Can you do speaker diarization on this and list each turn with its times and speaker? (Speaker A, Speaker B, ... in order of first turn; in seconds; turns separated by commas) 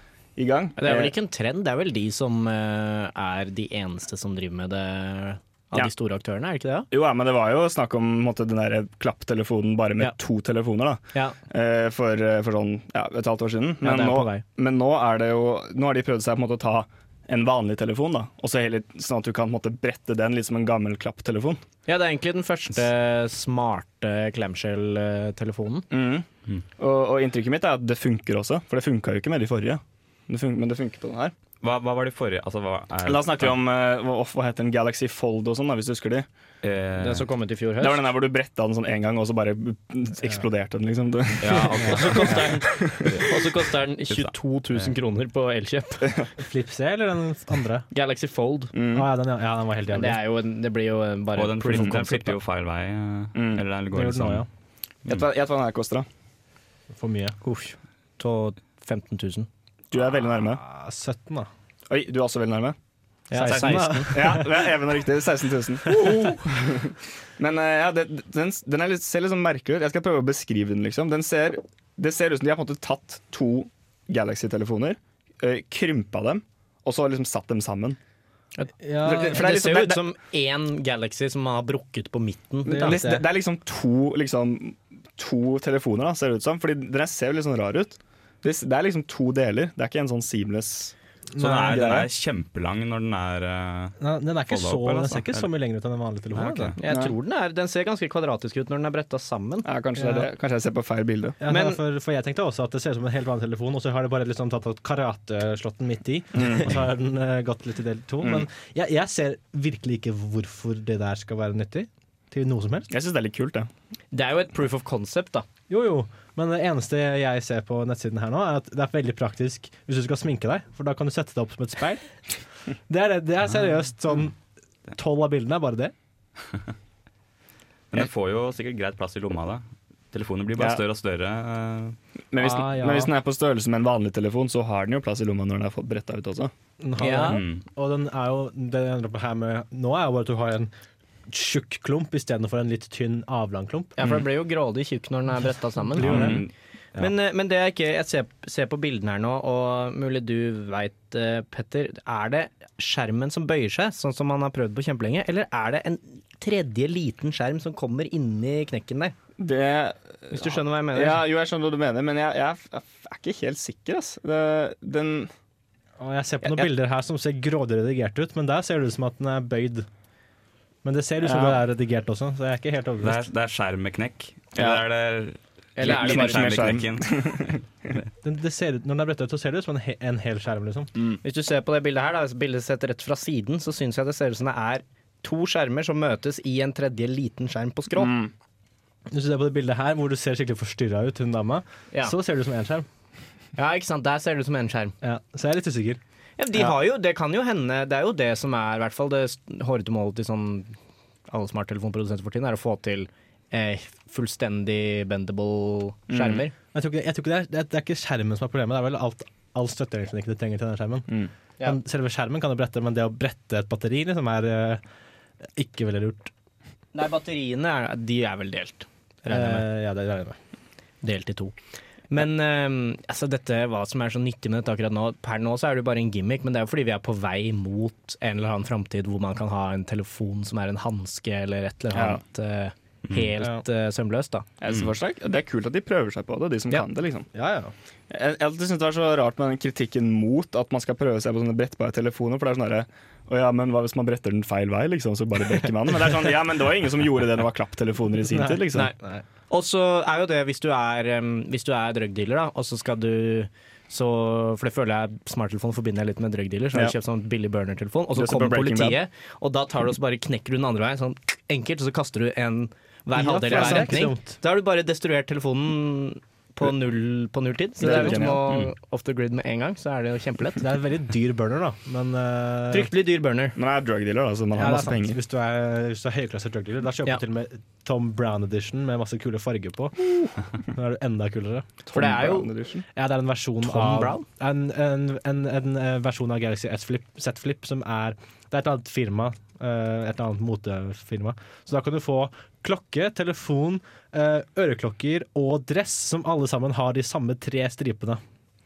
Speaker A: 0.4-1.1, Speaker B: 0.8-6.9, Speaker A: 6.9-21.6, Speaker B: 13.8-14.4, Speaker B: 21.9-25.9, Speaker A: 25.9-26.3, Speaker A: 26.8-31.3, Speaker C: 31.6-33.6, Speaker A: 33.1-36.3, Speaker C: 36.6-37.3, Speaker B: 37.0-38.0, Speaker A: 37.8-43.2, Speaker C: 41.4-42.4, Speaker B: 41.5-46.1, Speaker C: 44.1-44.9, Speaker D: 46.4-47.9, Speaker B: 47.9-48.7, Speaker A: 48.7-49.1, Speaker D: 48.9-50.2, Speaker B: 49.9-52.4, Speaker C: 51.4-54.5, Speaker A: 53.4-53.6, Speaker D: 53.9-54.5, Speaker A: 55.1-56.1, Speaker D: 56.9-57.4, Speaker B: 57.4-59.5, Speaker A: 59.9-60.6, Speaker D: 60.3-61.5, Speaker A: 61.9-62.8, Speaker B: 63.3-64.2, Speaker D: 63.3-64.7, Speaker A: 64.1-78.0, Speaker D: 65.9-66.2, Speaker B: 78.6-83.0, Speaker D: 78.8-79.4, Speaker A: 79.0-80.0, Speaker D: 82.7-83.2, Speaker A: 82.7-90.9, Speaker D: 91.3-92.0, Speaker C: 91.4-94.0, Speaker A: 91.5-92.1, Speaker D: 94.0-96.8, Speaker C: 94.5-95.5, Speaker C: 96.3-96.8, Speaker B: 96.8-99.7, Speaker A: 96.9-97.2, Speaker A: 99.7-101.4, Speaker D: 100.0-100.3, Speaker D: 101.4-112.9, Speaker B: 101.5-101.8, Speaker A: 106.3-106.8, Speaker A: 108.2-108.5, Speaker A: 112.9-113.7, Speaker B: 114.1-115.5, Speaker D: 115.7-122.1, Speaker D: 122.9-124.4, Speaker D: 125.0-125.9, Speaker C: 127.9-132.0, Speaker A: 132.3-136.5, Speaker D: 132.4-133.1, Speaker D: 136.8-140.7, Speaker B: 137.0-137.4, Speaker C: 137.2-137.6, Speaker D: 141.3-143.9, Speaker B: 144.0-146.4, Speaker D: 145.9-146.4, Speaker C: 146.0-147.1, Speaker A: 146.1-146.4, Speaker B: 147.0-159.2, Speaker A: 159.4-165.3, Speaker B: 160.3-161.2, Speaker D: 166.0-169.9, Speaker D: 170.8-173.3, Speaker A: 171.2-171.6, Speaker C: 173.0-178.0, Speaker A: 174.6-174.8, Speaker B: 175.8-176.7, Speaker A: 175.8-177.6, Speaker D: 178.2-180.9, Speaker B: 181.2-188.2, Speaker A: 188.0-188.3, Speaker D: 189.1-192.9, Speaker B: 193.6-194.9, Speaker D: 195.0-196.0, Speaker B: 196.4-200.8, Speaker B: 201.3-206.5, Speaker A: 206.1-206.4, Speaker D: 206.7-211.1, Speaker D: 211.6-214.8, Speaker D: 215.6-216.3, Speaker B: 216.9-219.7, Speaker D: 219.3-220.4, Speaker B: 221.0-221.6, Speaker B: 222.1-234.5, Speaker A: 231.9-232.2, Speaker A: 234.6-237.3, Speaker D: 237.3-237.7, Speaker A: 238.1-248.9, Speaker D: 248.2-249.2, Speaker B: 249.5-270.6, Speaker A: 258.1-259.0, Speaker D: 263.1-264.4, Speaker A: 263.5-263.9, Speaker A: 267.8-268.6, Speaker D: 270.6-272.9, Speaker B: 272.7-273.6, Speaker A: 273.6-275.2, Speaker D: 274.5-281.7, Speaker A: 281.9-282.9, Speaker B: 281.9-282.5, Speaker D: 282.9-298.2, Speaker B: 283.6-284.2